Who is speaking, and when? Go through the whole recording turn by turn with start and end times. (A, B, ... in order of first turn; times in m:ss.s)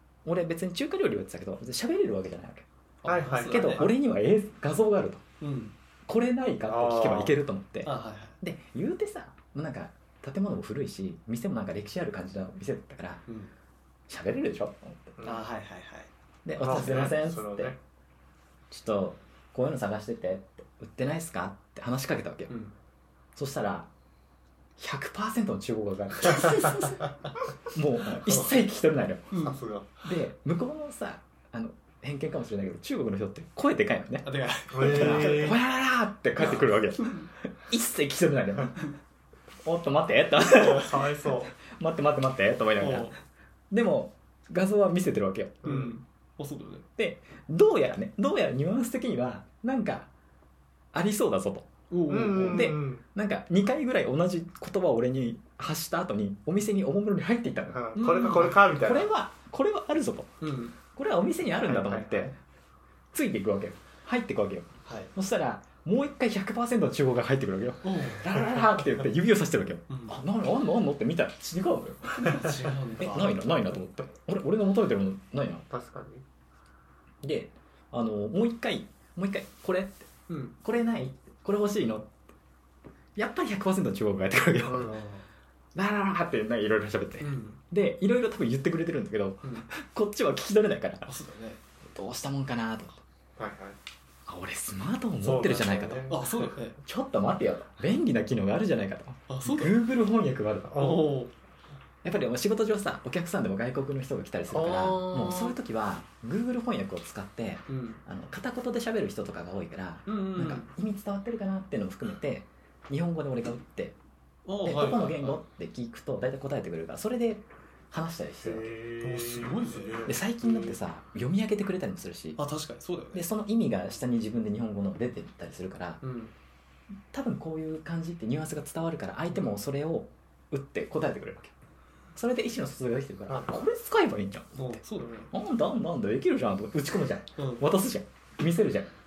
0:00.2-0:02.6 A
0:03.0-0:03.9 B
0:03.0-0:03.9 C
0:03.4-0:05.2 A
0:05.4-0:05.7 B
0:06.0-0:13.2 A
0:06.6-0:07.4 C
0:07.8-0:08.4 B
0:13.3-0:13.5 B
0:14.1-0:15.2 A
0:15.2-0:15.4 C
0:15.2-0:16.1 B
0:16.4-0:17.8 A
0:16.6-0:17.8 C
0:18.7-0:22.5 A
0:22.5-0:22.7 B
0:23.4-0:23.9 A
0:24.8-0:27.1 A
0:26.2-0:27.0 B
0:27.7-0:29.3 A
0:29.3-0:29.6 B
0:29.4-0:30.1 C
0:30.0-0:38.9 A
0:34.2-0:35.6 B
0:34.7-0:35.6 C
0:36.4-0:37.3 B
0:39.6-0:43.1 A
0:40.4-0:41.5 C
0:42.8-0:43.2 B
0:43.7-0:45.6 A
0:45.6-0:45.9 C
0:45.6-0:46.8 B
0:47.0-0:50.1 A
0:50.9-0:51.7 A
0:51.9-0:52.8 B
0:52.1-0:53.0 C
0:52.4-1:02.4 A
0:57.7-0:59.1 C
0:57.9-0:58.6 B
1:00.4-1:00.7 B
1:01.6-1:02.3 C
1:03.1-1:15.7 A
1:04.8-1:05.1 B
1:07.8-1:08.4 B
1:09.9-1:10.2 B
1:12.2-1:13.4 B
1:15.7-1:16.2 C
1:17.2-1:22.1 A
1:20.3-1:20.5 B
1:23.2-1:25.0 A
1:24.7-1:25.2 B
1:25.7-1:31.1 A
1:27.2-1:27.6 B
1:31.0-1:31.6 B
1:31.9-1:33.0 A
1:33.4-1:33.8 C
1:34.3-1:41.0 A
1:35.2-1:36.3 C
1:36.1-1:36.8 B
1:39.3-1:39.8 B
1:40.7-1:41.1 C
1:40.7-1:41.3 B
1:42.0-1:54.0 A
1:44.5-1:45.6 C
1:47.7-1:48.0 B
1:50.1-1:50.7 B
1:54.4-1:55.4 B
1:54.6-1:58.8 A
1:58.4-2:00.7 C
1:59.0-2:00.1 B
2:00.0-2:02.4 A
2:02.4-2:03.2 B
2:03.1-2:06.0 A
2:06.0-2:06.3 B
2:07.1-2:11.5 A
2:12.1-2:18.9 A
2:14.5-2:15.3 B
2:17.4-2:17.6 B